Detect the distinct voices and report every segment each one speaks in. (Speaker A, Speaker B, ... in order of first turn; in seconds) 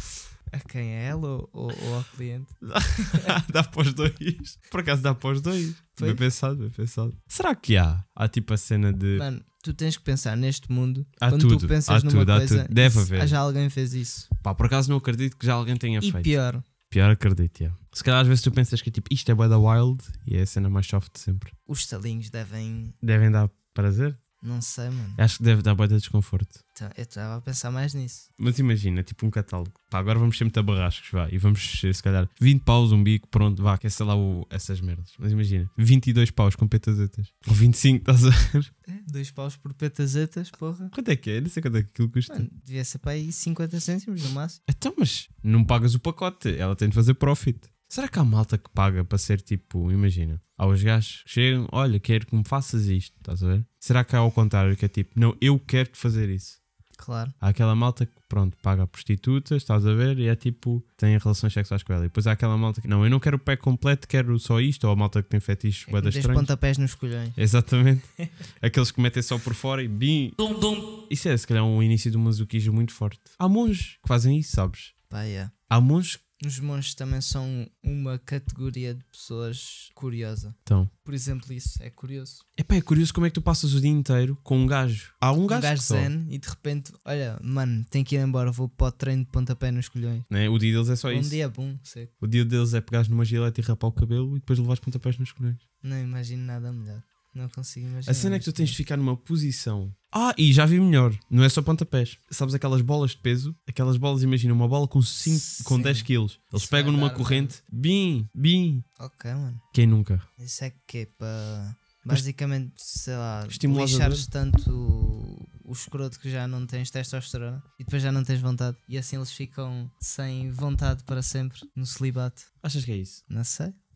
Speaker A: 0.5-3.3, 6.0-6.2, 9.1-14.3, 16.0-16.6, 21.7-22.9, 24.4-25.2, 26.7-28.3, 38.9-40.9, 42.3-44.6, 57.0-57.3, 65.9-67.4, 75.1-75.5, 76.4-82.4, 85.4-90.3, 91.1-92.1, 95.8-98.8, 105.2-107.5, 109.0-109.6, 110.4-122.5, 123.3-123.7
Speaker B: 2.6-9.2, 11.2-13.4, 14.4-16.3, 16.9-21.5, 23.0-24.2, 25.2-26.6, 28.4-38.7, 40.9-42.5, 44.7-56.6, 57.4-66.5, 67.4-68.1, 68.6-70.4, 71.1-74.9, 75.7-76.2, 80.7-80.9, 82.6-86.1, 90.3-91.4, 92.2-95.6, 98.0-108.8, 109.7-110.2, 113.5-114.3, 122.6-123.2